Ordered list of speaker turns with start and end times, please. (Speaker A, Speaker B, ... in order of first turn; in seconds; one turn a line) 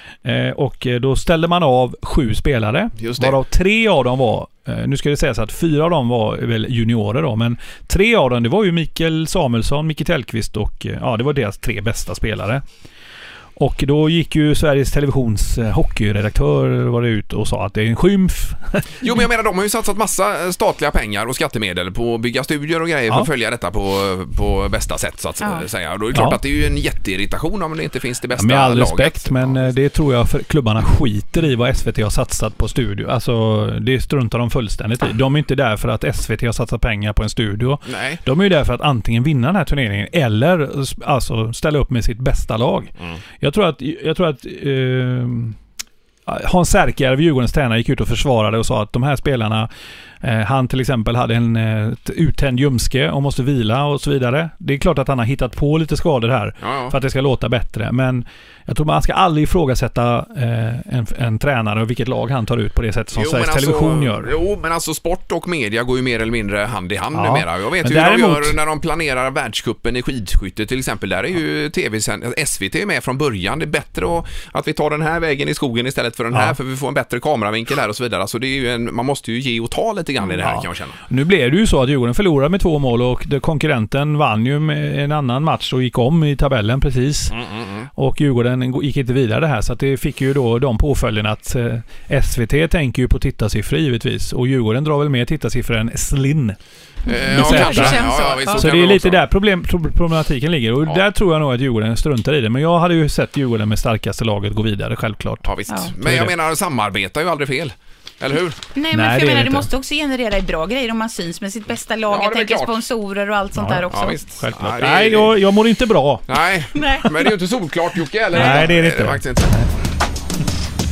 Speaker A: 0.2-12.6
Speaker B: 3.0-3.4
Speaker A: 13.6-18.9
Speaker B: 19.0-29.7
Speaker A: 26.1-26.4
Speaker A: 28.3-45.6
Speaker B: 37.9-38.2
Speaker A: 46.3-49.7
Speaker A: 50.2-64.3
Speaker B: 56.6-56.9
Speaker B: 63.1-81.0
Speaker A: 67.1-68.6
Speaker A: 80.4-87.4
Speaker B: 87.3-87.9
Speaker A: 88.0-96.6
Speaker C: 97.0-98.6
Speaker B: 97.0-99.2
Speaker A: 97.2-105.5
Speaker B: 105.4-108.6
Speaker A: 106.0-106.3
Speaker C: 108.7-114.2
Speaker A: 108.9-109.7
Speaker B: 112.1-112.7
Speaker A: 113.5-116.2
Speaker B: 113.9-115.3
Speaker B: 116.3-119.7
Speaker C: 116.7-117.4
Speaker C: 118.3-118.7
Speaker A: 118.3-119.7